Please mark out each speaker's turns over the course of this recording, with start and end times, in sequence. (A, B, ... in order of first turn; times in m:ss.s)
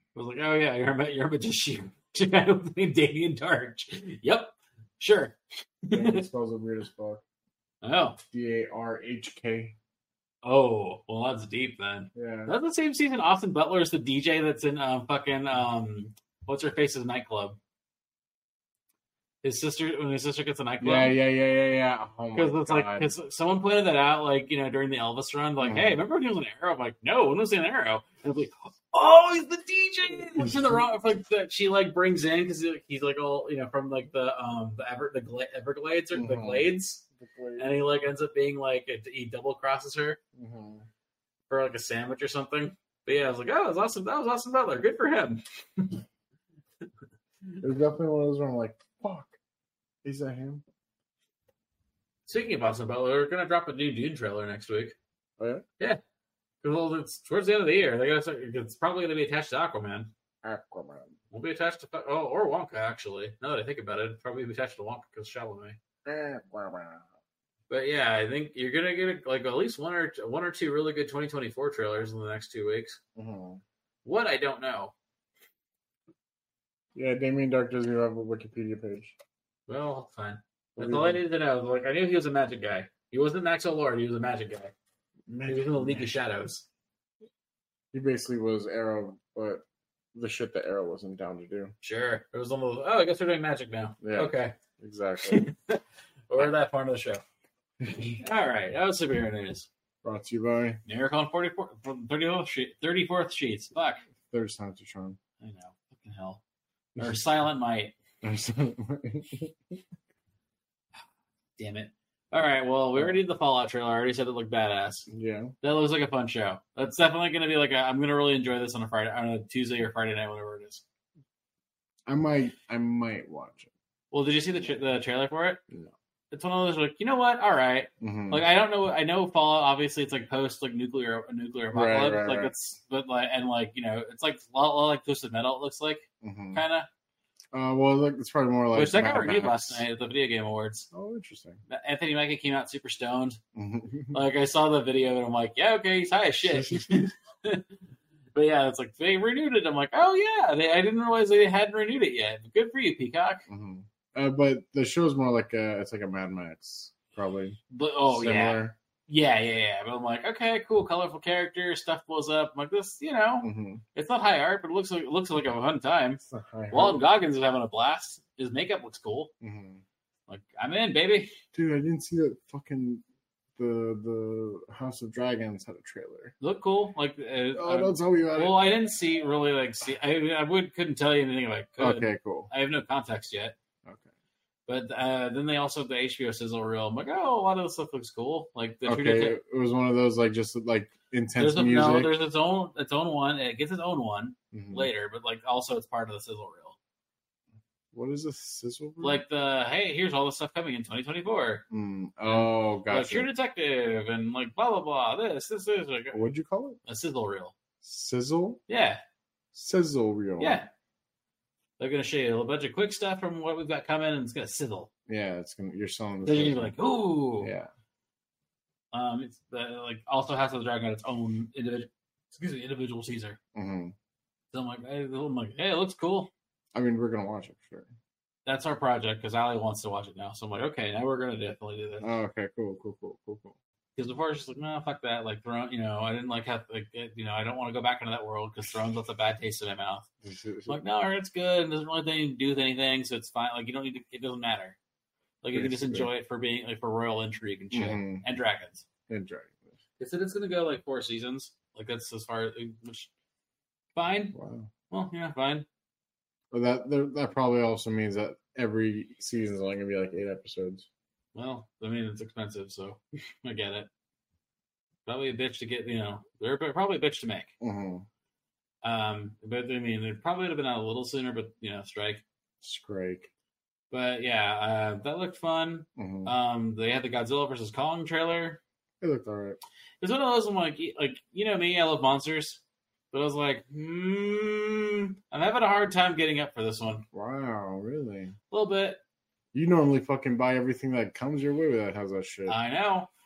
0:00.1-0:06.2 A
0:05.9-0:07.2 B
0:07.8-0:08.2 A
0:08.3-0:09.8 B
0:10.4-0:17.6 A
0:12.1-0:12.5 B
0:19.4-0:21.2 A
0:20.8-0:23.1 B
0:22.3-0:37.0 A
0:25.6-0:26.0 B
0:30.2-0:30.8 B
0:36.1-0:37.7 B
0:37.6-0:40.2 A
0:40.4-0:40.9 B
0:41.5-0:46.0 A
0:47.6-0:49.4 B
0:50.0-0:50.6 B
0:52.3-0:55.0 A
0:55.4-0:55.6 B
0:56.6-1:00.1 A
1:00.4-1:01.1 B
1:01.3-1:05.8 A
1:06.0-1:07.1 B
1:07.7-1:13.0 A
1:13.2-1:13.6 B
1:14.0-1:14.9 A
1:17.0-1:19.1 B
1:19.7-1:24.7 A
1:20.8-1:21.2 B
1:25.3-1:26.1 B
1:25.4-1:26.6 A
1:27.9-1:31.7 B
1:31.8-1:34.6 A
1:34.0-1:35.4 B
1:35.2-1:37.2 A
1:37.8-1:38.1 B
1:38.0-1:39.7 A
1:40.0-1:40.8 B
1:40.8-1:44.0 A
1:44.2-1:45.2 B
1:45.4-1:46.4 A
1:47.0-1:47.9 A
1:48.2-1:49.8 B
1:51.6-1:55.1 A
1:55.1-1:55.5 B
1:55.6-2:00.8 A
2:02.1-2:03.7 B
2:04.1-2:05.6 A
2:06.3-2:16.9 A
2:08.0-2:08.4 B
2:11.7-2:12.5 B
2:16.2-2:16.6 B
2:17.5-2:19.8 B
2:18.7-2:20.9 A
2:20.9-2:21.6 B
2:21.7-2:23.4 A
2:23.5-2:24.2 B
2:24.1-2:27.7 A
2:26.4-2:27.1 B
2:28.3-2:33.4 A
2:33.5-2:38.7 B
2:37.7-2:49.3 A
2:43.4-2:43.8 B
2:46.3-2:47.0 B
2:49.4-2:49.8 B
2:50.3-2:51.3 A
2:51.5-2:53.0 B
2:53.6-2:56.3 B
2:56.4-3:03.5 A
2:57.5-2:58.6 B
3:01.8-3:02.5 B
3:04.7-3:09.4 A
3:08.8-3:12.1 B
3:11.4-3:16.8 A
3:14.5-3:14.9 B
3:17.9-3:19.2 B
3:19.0-3:21.6 A
3:21.7-3:23.3 B
3:22.3-3:26.2 A
3:26.1-3:26.8 B
3:26.8-3:27.5 A
3:27.8-3:28.6 B
3:28.7-3:29.0 A
3:29.5-3:30.6 B
3:30.4-3:30.7 A
3:31.8-3:34.9 A
3:35.1-3:36.8 B
3:36.2-3:37.5 A
3:37.4-3:37.7 B
3:38.9-3:43.4 A
3:43.5-3:43.9 B
3:44.5-3:46.3 A
3:46.7-3:47.9 B
3:48.4-3:52.1 A
3:52.0-3:53.6 B
3:54.0-4:00.1 A
4:00.2-4:00.8 B
4:00.7-4:04.8 A
4:05.4-4:08.8 A
4:05.5-4:06.1 B
4:07.7-4:08.2 B
4:09.1-4:09.7 B
4:10.0-4:13.1 A
4:13.9-4:14.3 A
4:14.3-4:14.7 B
4:14.9-4:15.6 A
4:16.5-4:20.9 B
4:21.3-4:23.9 A
4:25.0-4:27.5 A
4:27.6-4:28.0 B
4:28.8-4:32.2 A
4:32.6-4:33.3 B
4:33.9-4:38.6 A
4:36.0-4:36.3 B
4:39.0-4:39.6 B
4:40.0-4:42.6 A
4:43.1-4:47.0 A
4:47.1-4:48.3 B
4:48.5-4:49.0 A
4:49.5-4:52.6 B
4:52.5-4:53.1 A